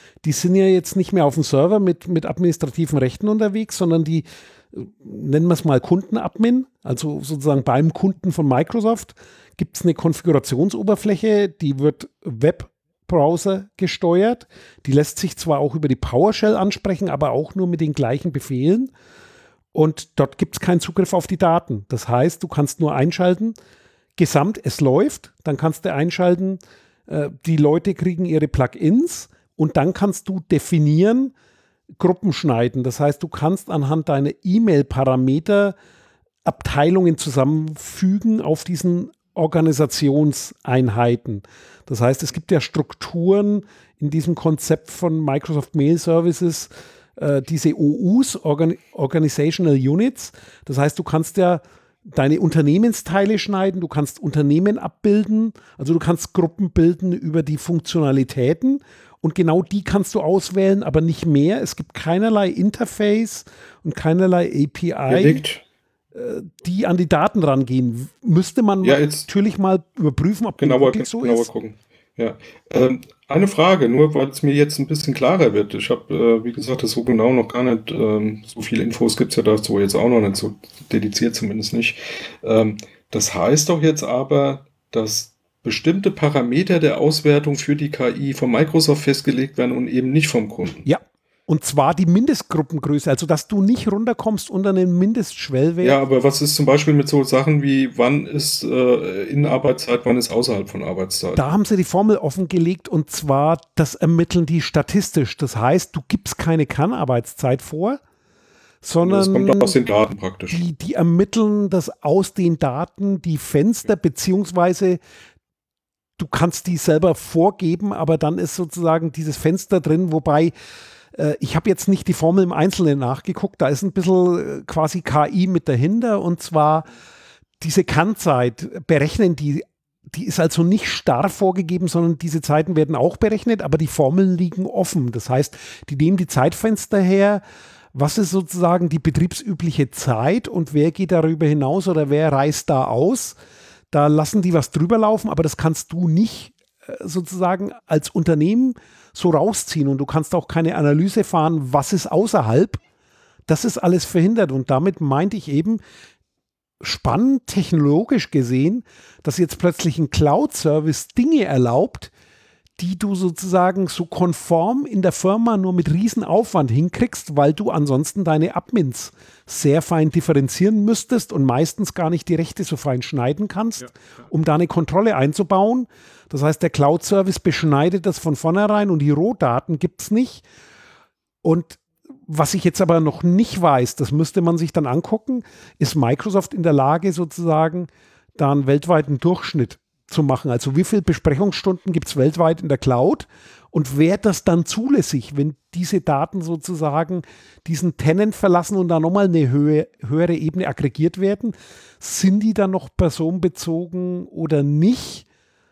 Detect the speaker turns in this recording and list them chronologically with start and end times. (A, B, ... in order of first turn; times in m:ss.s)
0:00.2-0:18.9 A
0:19.7-0:23.6 A
0:24.2-0:31.3 A
0:32.0-0:35.8 A
0:36.4-1:05.4 A
1:05.1-1:05.6 B
1:06.1-1:11.5 A
1:08.8-1:09.3 B
1:10.6-1:30.8 B
1:30.8-1:36.0 A
1:35.8-1:41.4 B
1:41.4-1:48.0 A
1:48.8-1:49.8 A
1:49.0-1:50.6 B
1:50.5-1:55.0 A
1:56.2-2:00.5 A
2:01.1-2:06.9 A
2:07.6-2:17.4 A
2:17.9-2:23.4 A
2:23.9-2:32.8 A
2:33.5-2:35.8 A
2:36.8-2:42.1 A
2:42.8-3:00.4 A
3:01.4-3:25.2 A